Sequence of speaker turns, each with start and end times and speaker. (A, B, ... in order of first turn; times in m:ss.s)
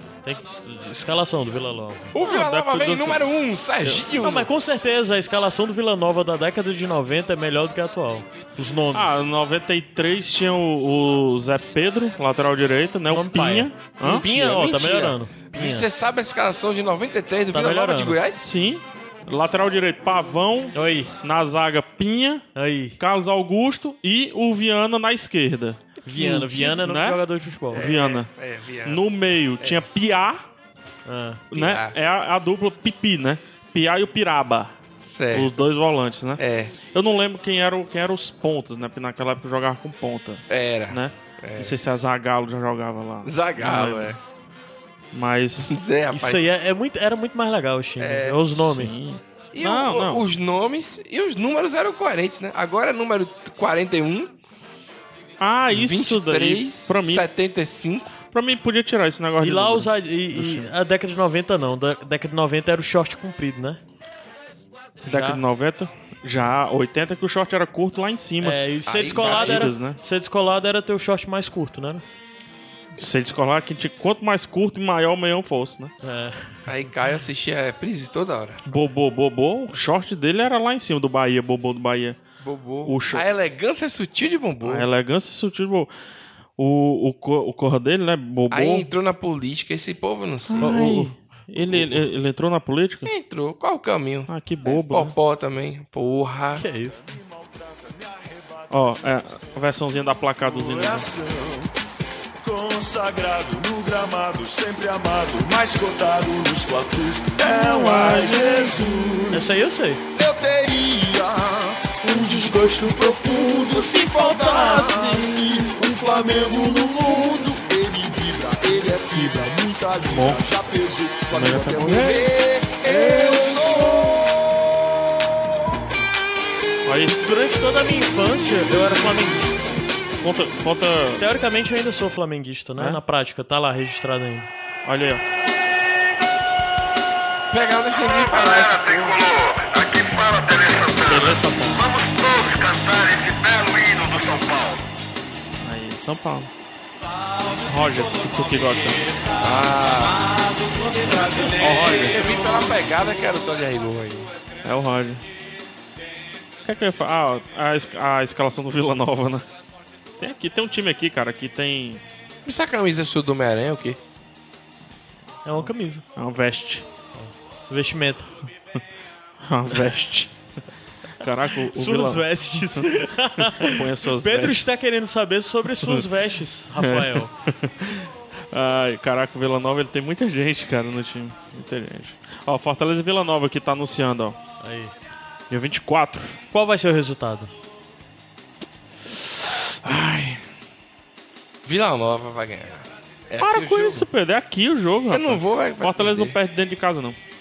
0:00.2-0:02.1 A
0:02.1-0:04.5 B
0:02.2-0:03.2 C
0:04.0-0:09.2 A
0:08.9-0:14.4 C
0:13.1-0:15.9 A
0:14.3-0:18.4 B
0:17.5-0:18.2 A
0:18.4-0:22.4 C
0:20.7-0:21.1 A
0:22.6-0:23.0 A
0:23.0-0:28.3 C
0:26.0-0:27.8 A
0:27.7-0:29.0 B
0:28.8-0:30.4 C
0:31.0-0:31.4 A
0:31.5-0:34.7 C
0:31.5-0:31.9 B
0:35.0-0:35.5 B
0:35.3-0:44.1 C
0:36.4-0:36.7 B
0:40.5-0:41.8 B
0:43.2-0:44.2 B
0:45.1-0:45.7 C
0:45.7-0:46.4 B
0:46.1-0:48.9 A
0:48.0-0:48.4 B
0:48.6-0:50.2 C
0:49.5-0:54.3 B
0:55.4-0:57.3 C
0:55.7-0:58.1 B
0:58.3-1:00.7 C
0:59.4-1:03.8 A
1:05.0-1:05.4 A
1:05.0-1:08.6 C
1:08.4-1:12.0 A
1:08.8-1:09.7 B
1:09.1-1:10.0 C
1:13.0-1:15.9 C
1:16.0-1:16.5 A
1:16.7-1:18.6 B
1:18.7-1:22.2 C
1:22.4-1:24.9 B
1:22.8-1:23.2 C
1:24.6-1:25.9 C
1:26.6-1:28.9 C
1:28.5-1:30.7 B
1:30.5-1:33.1 C
1:30.6-1:31.1 A
1:33.0-1:36.6 B
1:34.3-1:35.1 C
1:36.6-1:37.0 A
1:37.0-1:41.7 D
1:38.7-1:41.1 C
1:42.4-1:49.6 D
1:47.5-1:48.5 C
1:47.9-1:48.7 A
1:49.3-1:50.0 A
1:50.2-2:04.4 D
1:53.8-1:55.0 A
1:54.3-1:55.5 C
2:00.0-2:00.5 C
2:01.3-2:02.3 C
2:02.8-2:03.6 C
2:06.8-2:07.2 C
2:07.2-2:09.8 A
2:10.2-2:11.2 C
2:11.2-2:14.5 A
2:14.8-2:15.2 C
2:17.5-2:19.2 B
2:18.1-2:24.8 E
2:21.0-2:21.8 C
2:25.6-2:26.5 C
2:27.6-2:29.0 C
2:27.8-2:28.7 D
2:29.4-2:30.2 B
2:31.5-2:32.2 C
2:32.0-2:34.3 B
2:34.6-2:35.2 C
2:36.6-2:39.4 C
2:40.2-2:42.0 C
2:42.4-2:44.0 B
2:45.4-2:46.0 A
2:46.2-2:46.8 C
2:47.1-2:48.3 A
2:49.4-2:50.3 C
2:51.2-2:52.9 C
2:51.7-2:57.3 A
2:53.6-2:54.8 C
2:55.7-2:56.0 C
2:56.8-3:04.4 C
3:04.6-3:04.9 A
3:05.5-3:06.4 C
3:06.5-3:07.5 A
3:09.8-3:10.4 C
3:11.6-3:14.0 B
3:13.4-3:17.2 C
3:15.1-3:16.4 B